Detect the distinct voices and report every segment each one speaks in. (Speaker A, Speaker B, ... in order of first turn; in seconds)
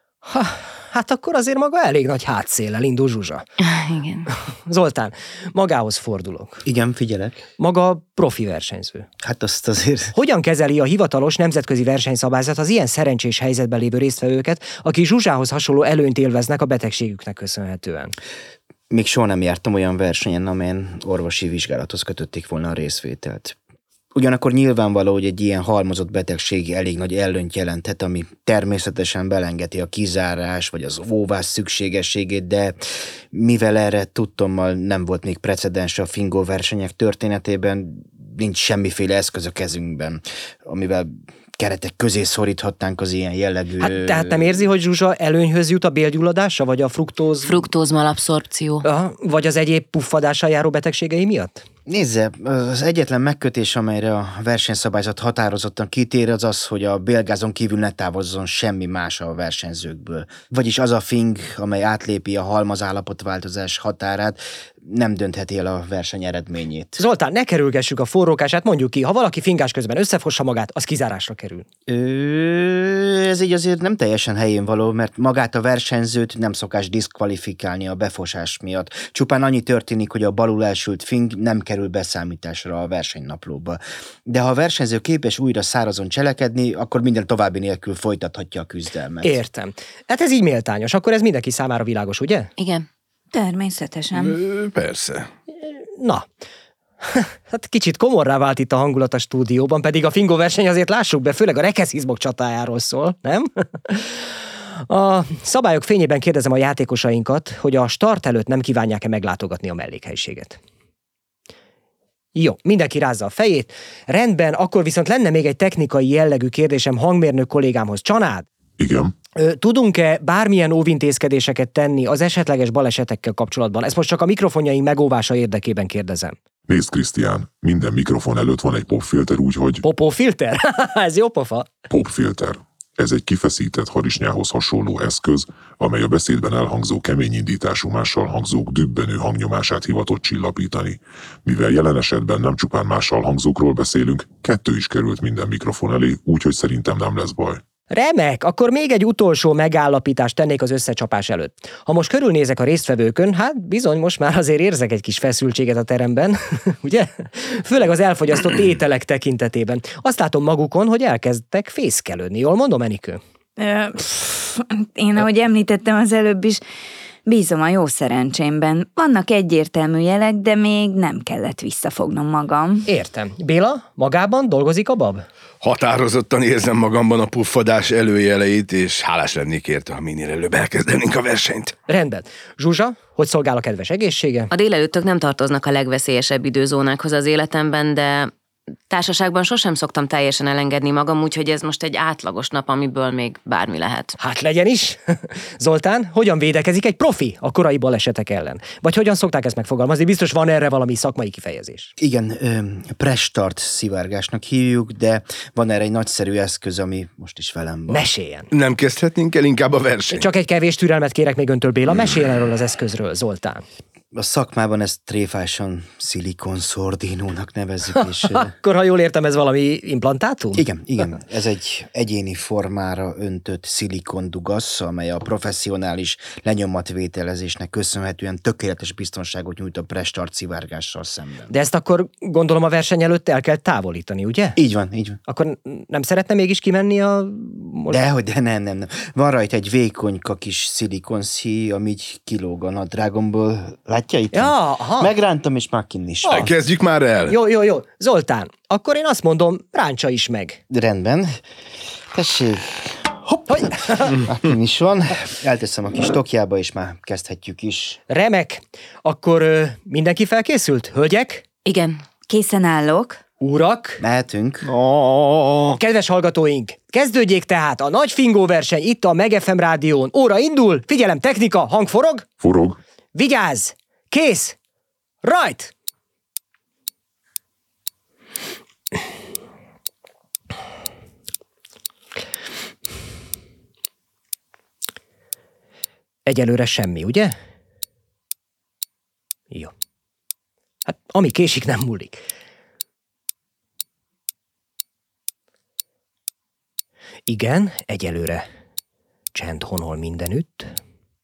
Speaker A: 0.2-3.5, 4.7-6.6, 7.6-9.1, 10.2-18.2, 43.8-47.6, 48.8-51.6, 67.0-71.7, 89.2-92.5, 95.6-96.3, 97.0-104.2, 104.9-110.6, 112.3-118.5, 119.3-126.4, 129.8-131.7, 147.9-163.2, 172.9-175.2, 181.9-184.5, 194.2-201.9, 207.9-208.5, 210.1-213.6, 218.3-220.7, 231.5-234.6, 235.3-238.0, 244.3-245.1, 246.2-246.5, 247.3-250.6, 253.5-254.2, 258.1-261.4, 263.4-264.0, 265.8-272.3, 273.1-274.6, 275.2-275.7, 286.2-287.4, 290.9-292.2, 297.3-298.5, 299.3-300.7
Speaker B: 3.6-4.3, 47.4-48.9, 92.6-92.9, 184.5-188.3, 188.9-194.2, 261.6-262.0
Speaker C: 6.7-7.5, 9.2-10.1, 18.9-23.6, 24.1-44.6, 51.9-67.0, 71.9-89.4, 202.0-208.1, 214.1-218.5, 220.5-231.5, 234.6-235.2, 237.9-246.5, 250.7-251.4, 252.1-258.0, 264.0-264.7
Speaker D: 93.3-94.4, 163.6-166.6, 167.3-172.9, 262.3-263.2
Speaker E: 94.1-95.3, 175.6-181.8, 208.5-210.3, 246.3-247.4, 264.6-265.8
Speaker F: 118.8-119.1, 126.7-129.8, 131.9-147.6, 272.4-272.8